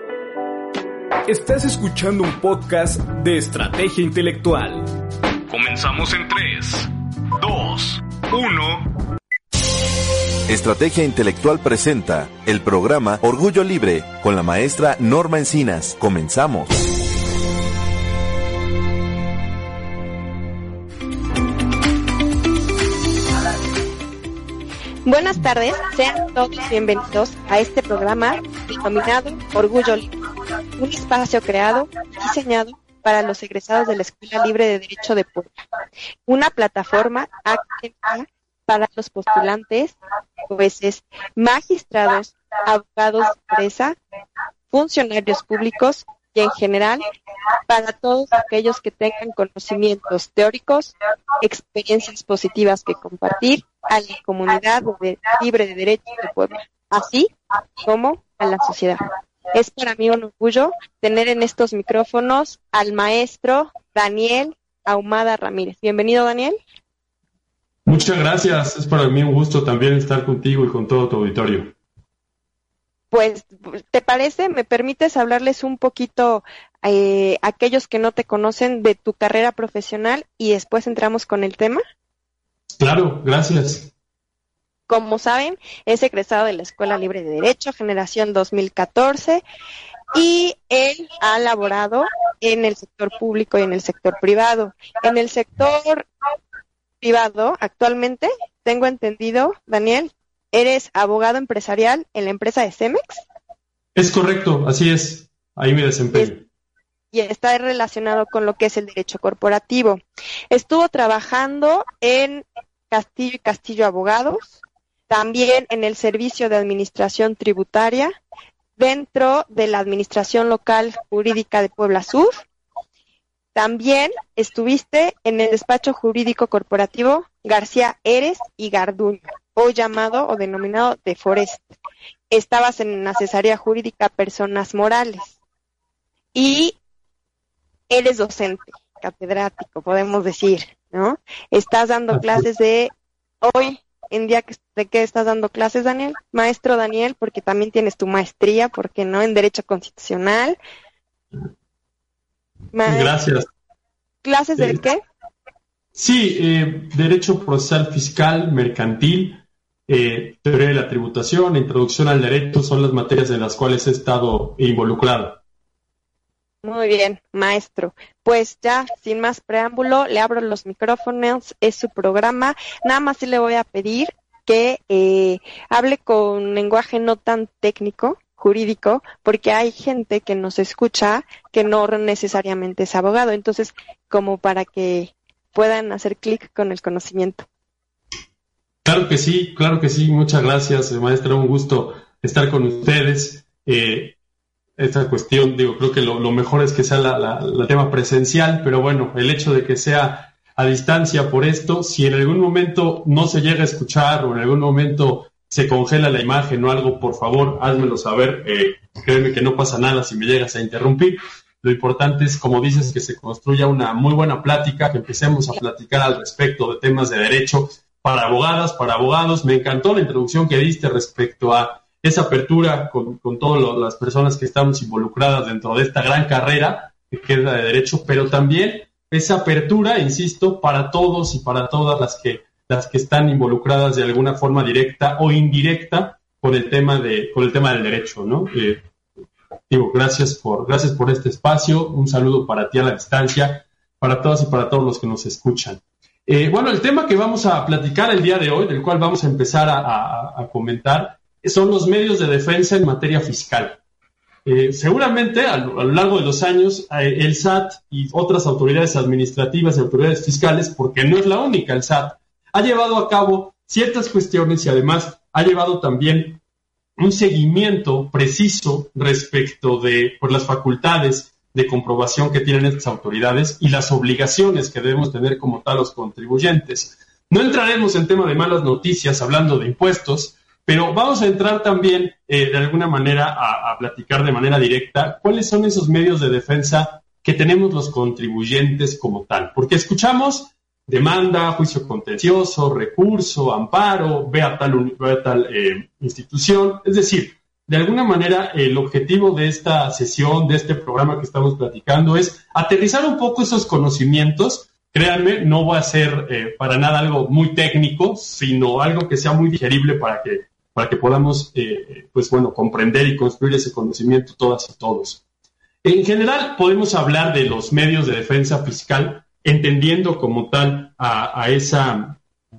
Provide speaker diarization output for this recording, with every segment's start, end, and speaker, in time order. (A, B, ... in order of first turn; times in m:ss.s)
0:01.2-0:04.9 A
0:05.5-0:08.8 A
0:10.5-0:16.8 B
0:25.0-0:30.2 C
0:30.8-0:35.6 C
0:36.2-0:40.0 C
0:40.5-0:44.0 C
0:44.7-0:47.0 C
0:47.7-0:57.3 C
0:57.8-1:06.6 C
1:07.8-1:11.7 D
1:13.1-1:21.8 C
1:22.8-1:23.9 D
1:24.9-1:29.4 C
1:30.1-1:36.1 C
1:37.0-1:43.2 C
1:43.9-1:46.4 D
1:47.1-1:50.0 C
1:50.5-1:58.1 C
1:58.8-2:02.4 C
2:03.5-2:11.8 C
2:12.3-2:15.3 C
2:16.3-2:16.8 C
2:17.9-2:30.6 C
2:32.7-2:33.1 C
2:32.8-2:33.5 D
2:34.2-2:35.0 C
2:35.9-2:45.4 D
2:46.6-3:07.4 C
3:08.8-3:14.2 D
3:14.8-3:58.8 D
3:59.7-4:13.8 D
4:14.4-4:26.4 D
4:27.0-5:15.2 D
5:15.8-5:22.2 D